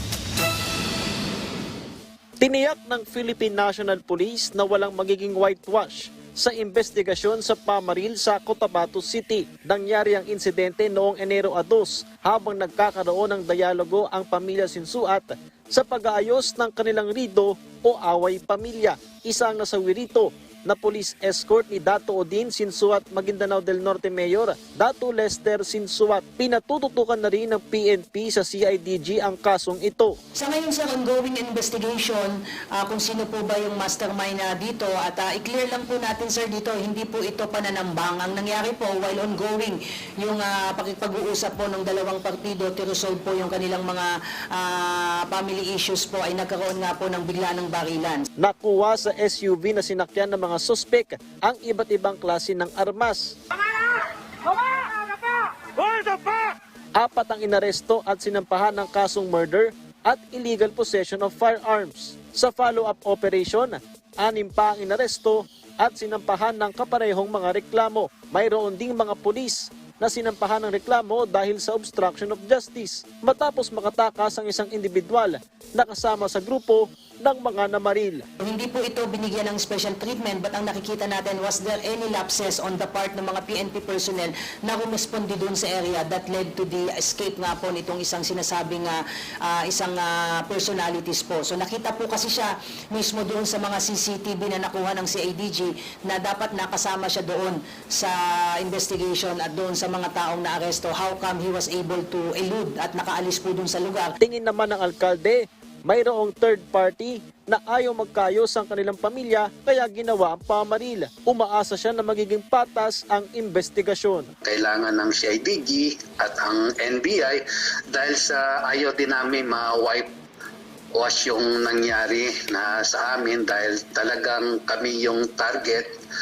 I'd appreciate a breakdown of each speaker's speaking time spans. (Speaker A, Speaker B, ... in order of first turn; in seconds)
Speaker A: 2.4-30.2, 48.4-53.4, 54.5-54.9, 55.8-78.2, 104.2-114.3
Speaker B: 30.4-48.2, 78.4-104.1
Speaker C: 114.4-120.1, 121.0-125.9